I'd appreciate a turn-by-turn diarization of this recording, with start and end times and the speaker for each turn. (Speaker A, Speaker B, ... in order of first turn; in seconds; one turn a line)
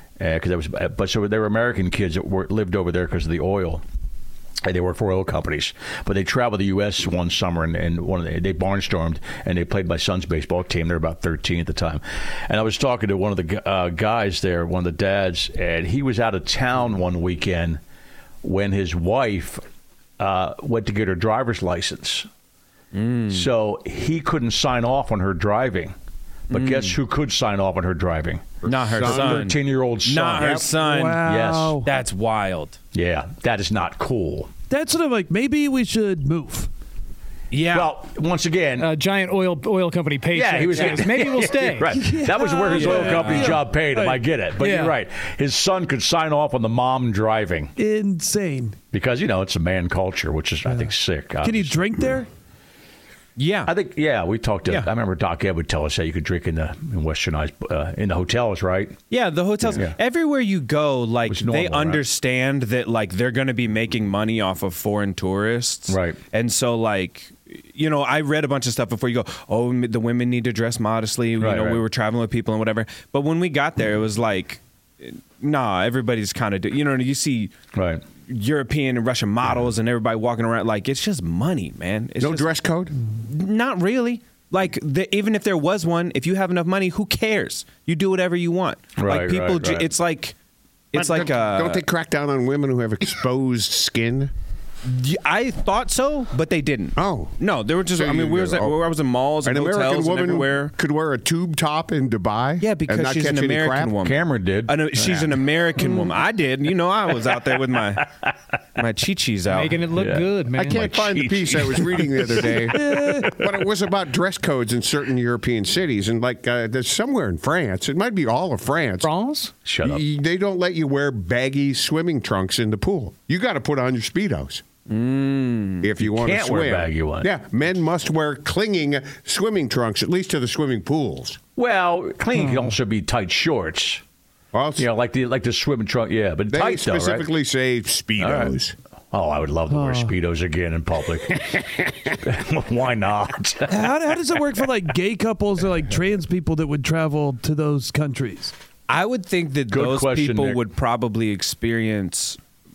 Speaker A: 0.2-3.8
Speaker A: 4.6-17.8
Speaker A: 18.4-19.6
Speaker A: 20.2-22.3
Speaker B: 22.9-23.4
Speaker A: 23.3-25.9
Speaker A: 26.5-30.7
Speaker B: 26.5-27.0
Speaker C: 28.6-29.5
Speaker B: 28.6-31.2
Speaker C: 30.4-30.7
Speaker D: 30.8-31.9
Speaker A: 31.2-31.8
Speaker B: 31.8-32.8
Speaker A: 32.9-34.5
Speaker D: 34.7-36.7
Speaker B: 37.5-37.9
Speaker A: 37.7-38.9
Speaker E: 38.8-42.0
Speaker A: 40.3-47.7
Speaker D: 41.9-44.2
Speaker B: 42.7-43.6
Speaker E: 44.6-44.9
Speaker D: 47.8-48.8
Speaker A: 48.9-51.9
Speaker D: 51.4-52.3
Speaker B: 53.4-53.7
Speaker A: 53.6-59.0
Speaker B: 59.1-77.5
Speaker A: 59.6-59.9
Speaker A: 61.2-62.0
Speaker A: 65.9-66.2
Speaker A: 71.4-71.8
Speaker A: 77.7-78.0
Speaker B: 78.3-82.5
Speaker C: 82.2-83.0
Speaker B: 83.2-90.3
Speaker A: 89.0-89.9
Speaker B: 90.9-91.8
Speaker C: 90.9-94.3
Speaker B: 94.9-100.7
Speaker C: 97.0-97.3
Speaker C: 97.9-98.8
Speaker C: 99.4-103.9
Speaker B: 102.6-108.1
Speaker A: 104.0-105.8
Speaker B: 108.8-109.8
Speaker E: 109.5-110.8
Speaker A: 109.9-112.8
Speaker C: 110.5-119.1
Speaker D: 112.7-113.3
Speaker E: 119.0-119.5
Speaker A: 119.6-120.0
Speaker C: 119.8-124.6
Speaker B: 124.9-125.9
Speaker C: 125.8-131.4
Speaker A: 126.0-127.3
Speaker A: 131.6-134.0
Speaker C: 134.5-134.9
Speaker A: 134.8-137.3
Speaker C: 136.5-138.7
Speaker A: 138.2-138.6
Speaker A: 139.1-144.4
Speaker D: 139.7-140.1
Speaker D: 143.7-148.5
Speaker B: 148.9-152.4
Speaker A: 149.7-150.6